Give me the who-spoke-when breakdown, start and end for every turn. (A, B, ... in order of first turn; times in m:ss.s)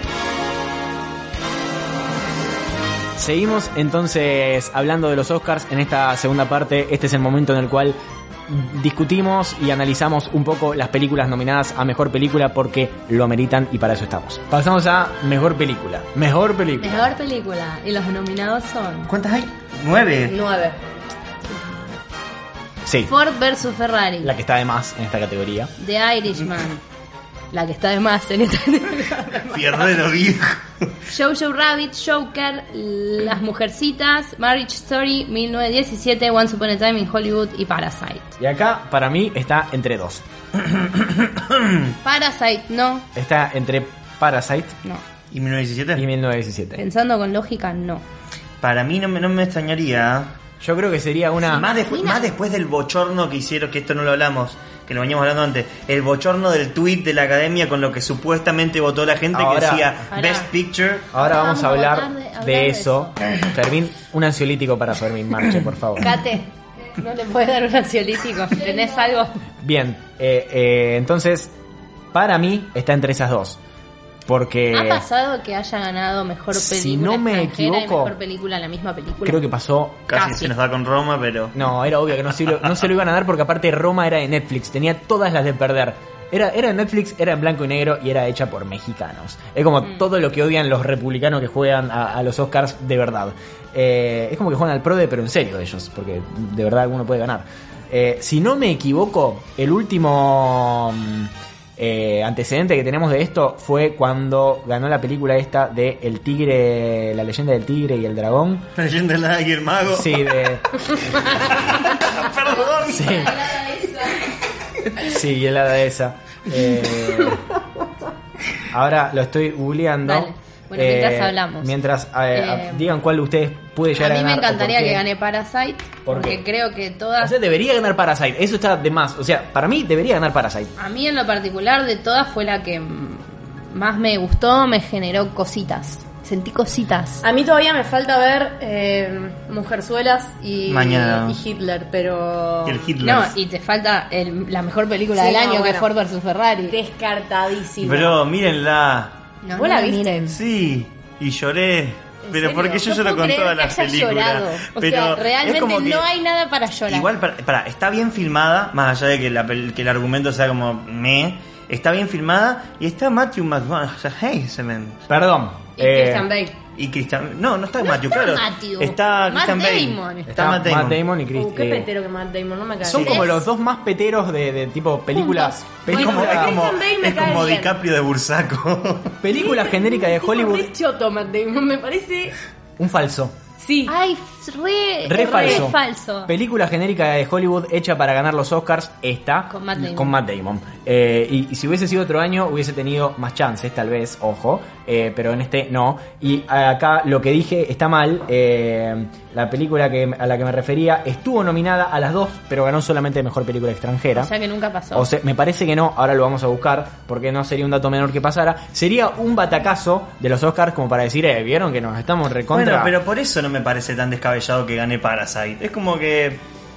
0:03.2-0:08.0 A
0:08.5-0:17.1 A
0:16.8-0:19.1 B
0:19.1-0:20.4 C
0:20.3-0:20.8 D
0:22.8-0:23.1 A
0:23.1-0:24.3 B
0:24.2-0:25.7 A
0:25.8-0:26.8 B
0:27.5-0:29.8 B
0:29.4-0:30.9 C
0:31.0-0:38.4 B
0:38.4-0:40.2 A
0:40.6-0:41.9 C
0:42.0-0:43.0 B
0:43.1-0:44.8 A
0:45.3-0:46.0 C
0:45.9-0:46.8 A
0:46.8-0:48.0 B
0:48.6-0:50.3 C
0:50.6-0:51.6 A
0:51.4-0:52.3 B
0:51.5-1:01.1 C
0:59.3-1:00.0 A
1:00.1-1:00.5 B
1:01.1-1:06.1 A
1:01.1-1:03.2 B
1:06.0-1:09.3 B
1:09.6-1:11.5 A
1:12.1-1:13.6 A
1:14.2-1:15.0 A
1:14.7-1:19.4 B
1:16.5-1:18.1 A
1:19.2-1:20.1 A
1:20.1-1:21.6 C
1:20.1-1:20.5 B
1:21.5-1:48.7 A
1:48.8-1:50.3 C
1:49.9-1:50.6 A
1:51.2-1:53.4 C
1:52.7-1:54.1 B
1:52.8-1:53.5 A
1:55.0-1:57.4 A
1:58.7-2:05.0 A
2:00.0-2:01.7 B
2:02.3-2:02.9 B
2:03.9-2:07.3 B
2:06.0-2:06.4 A
2:07.2-2:10.7 A
2:10.8-2:17.2 B
2:17.2-2:22.9 D
2:20.6-2:21.4 C
2:22.6-2:23.3 C
2:23.0-2:26.8 B
2:25.2-2:25.9 D
2:26.7-2:28.2 D
2:27.8-2:29.2 C
2:29.4-2:30.1 B
2:29.5-2:30.4 D
2:30.3-2:36.0 C
2:32.2-2:32.9 D
2:32.8-2:37.1 B
2:36.9-2:45.0 C
2:45.1-2:46.3 A
2:45.8-2:46.6 D
2:46.8-2:51.0 C
2:47.8-2:50.3 B
2:50.3-2:51.9 A
2:51.3-2:53.3 D
2:52.8-2:56.5 A
2:52.9-2:53.3 C
2:55.1-2:55.9 B
2:55.9-2:59.2 C
2:55.9-2:57.7 D
2:59.2-3:00.7 A
2:59.3-3:02.3 D
3:02.8-3:03.3 A
3:03.6-3:03.9 D
3:03.8-3:06.3 B
3:05.0-3:24.3 A
3:05.2-3:05.7 D
3:09.5-3:10.2 B
3:24.1-3:25.1 B
3:24.9-3:32.9 A
3:32.5-3:36.4 C